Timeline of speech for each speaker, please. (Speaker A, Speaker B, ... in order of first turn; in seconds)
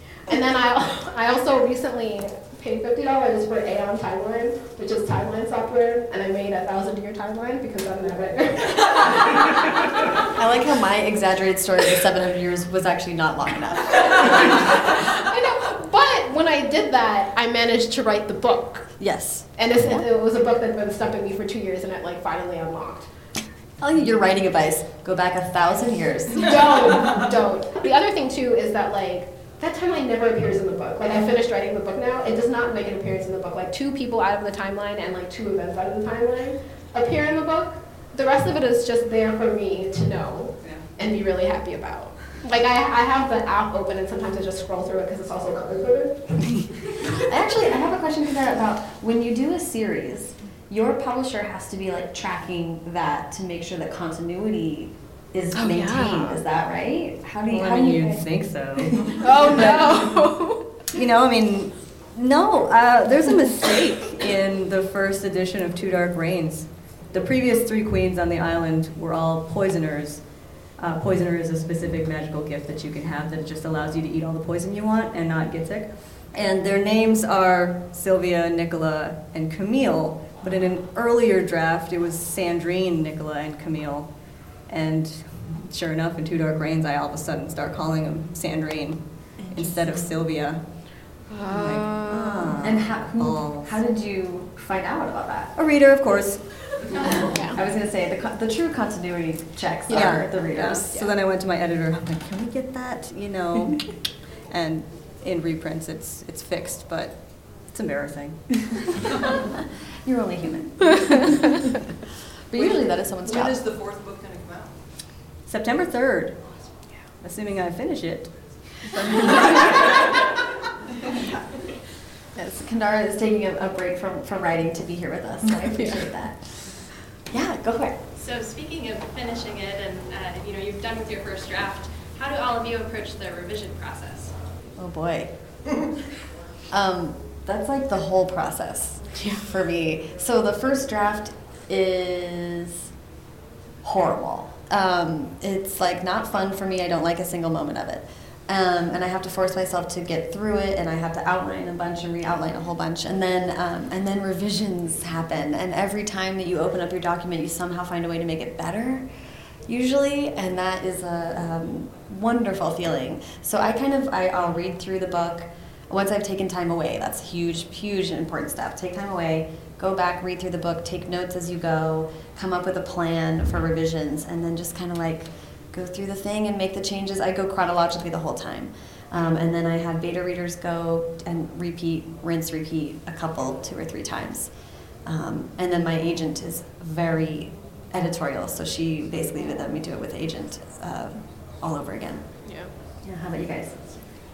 Speaker A: 0.3-9.9, 14.2-18.9, 19.6-23.1, 26.4-46.6, 55.5-56.4, 59.2-60.8, 91.3-92.5, 97.0-97.6, 99.9-100.3, 118.9-119.9, 125.7-126.0, 139.2-139.5
Speaker B: 10.3-14.8, 19.0-20.1, 23.8-26.7, 47.1-59.6, 89.4-90.2, 92.6-95.6, 96.9-101.0, 110.0-111.5, 112.5-113.6, 122.3-128.0, 134.8-135.3, 136.7-142.9, 143.8-159.1, 159.7-184.5, 185.1-192.3, 193.0-193.8
Speaker C: 57.5-60.3, 60.9-70.2, 70.8-84.1, 84.7-90.6, 91.5-93.8, 95.6-97.1, 99.9-108.8, 115.5-116.4, 117.2-118.3, 119.3-119.7
Speaker D: 112.6-114.9
Speaker E: 128.2-134.3